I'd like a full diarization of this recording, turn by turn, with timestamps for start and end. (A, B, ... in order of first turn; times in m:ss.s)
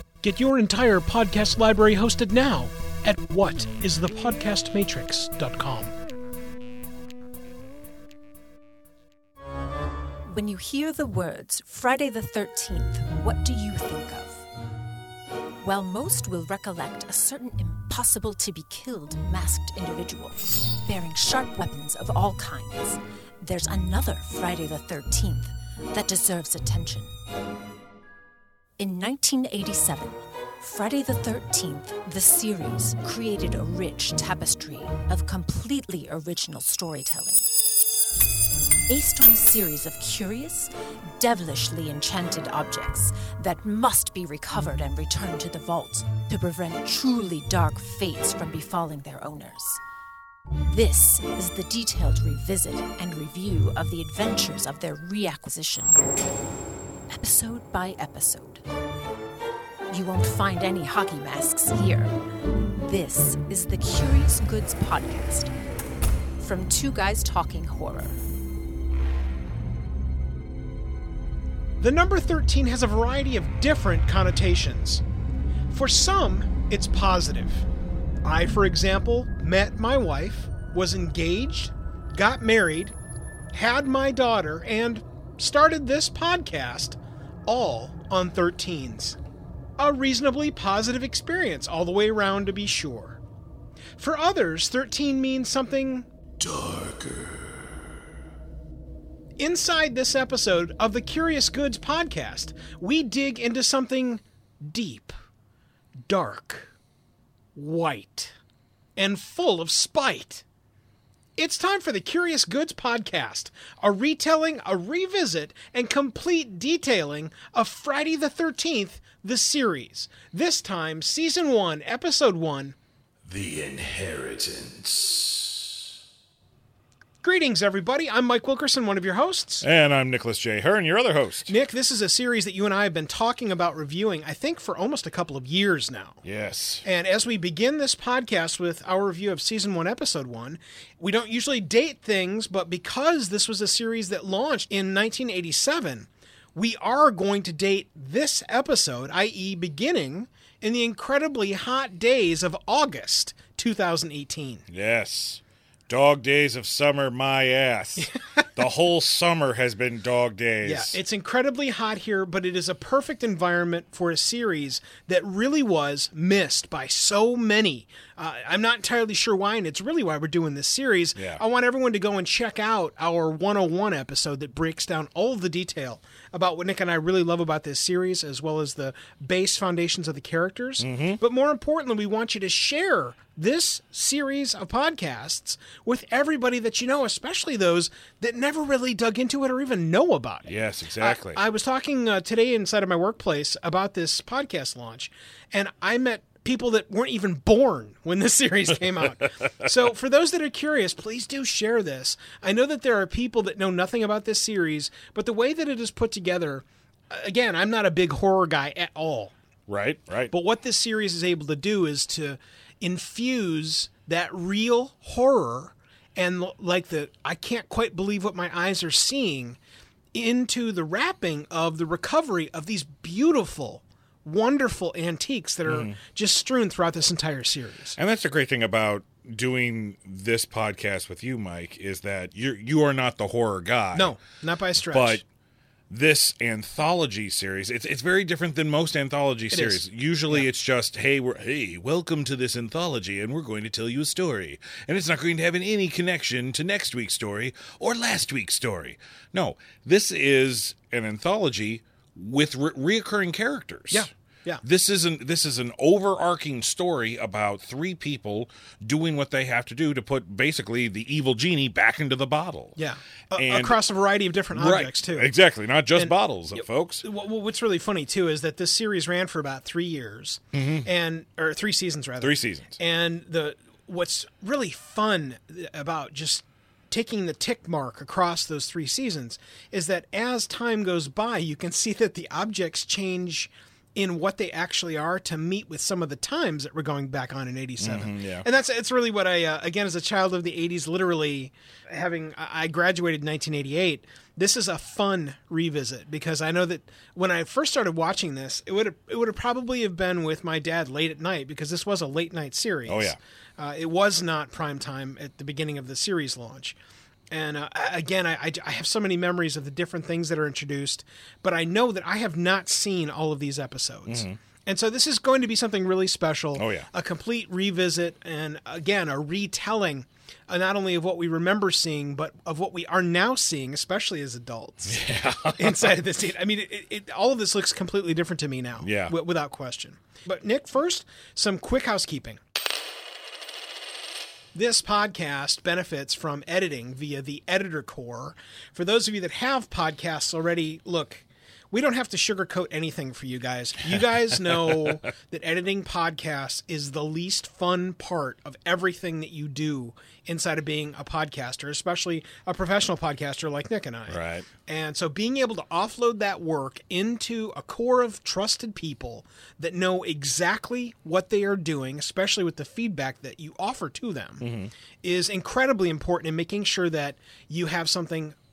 0:00.2-0:05.9 A
0:10.2-0:14.5 B
0:15.6-0:27.1 B
0:28.8-0:37.4 B
0:38.9-0:49.8 B
0:50.7-0:56.0 B
0:57.1-0:58.6 B
0:59.9-1:02.1 B
1:02.8-1:05.5 B
1:06.4-1:08.2 B
1:11.8-1:15.0 A
1:15.7-1:17.7 A
1:18.2-1:22.9 A
1:23.5-1:29.2 A
1:29.8-1:33.2 A
1:34.0-1:36.1 A
1:36.4-1:37.8 C
1:39.4-1:45.1 A
1:46.0-1:46.7 A
1:47.5-1:48.3 A
1:49.0-1:50.4 A
1:51.4-2:02.7 A
2:03.2-2:05.9 C
2:07.2-2:09.6 A
2:09.6-2:11.5 C
2:11.5-2:16.2 A
2:16.2-2:16.8 C
2:16.8-2:34.6 A
2:34.7-2:41.0 C
2:38.0-2:38.4 A
2:40.6-3:29.3 A
2:51.2-2:51.4 C
3:00.8-3:01.2 C
3:10.4-3:11.4 C
3:29.7-3:30.3 C
3:30.3-3:39.6 A
3:40.1-3:48.0 A
3:45.6-3:46.0 C
3:48.0-3:54.2 C
3:53.9-3:55.2 A
3:54.8-3:55.2 C
3:55.9-4:14.1 C
3:59.5-4:00.5 A
4:13.9-4:14.6 A
4:14.6-4:22.8 C
4:22.8-4:25.3 A
4:23.3-4:23.8 C
4:24.5-4:27.0 C
4:25.9-5:06.8 A
4:30.5-4:30.9 C
4:32.2-4:32.8 C
4:47.8-4:48.4 C
5:02.9-5:03.2 C
5:07.3-5:25.0 A
5:14.1-5:14.4 C
5:16.6-5:16.9 C
5:24.8-5:25.9 C
5:25.6-5:32.4 A
5:28.8-5:29.1 C
5:34.5-6:04.5 A
5:44.0-5:45.0 C
5:54.1-5:54.5 C
6:04.4-6:04.7 C
6:05.0-6:08.4 A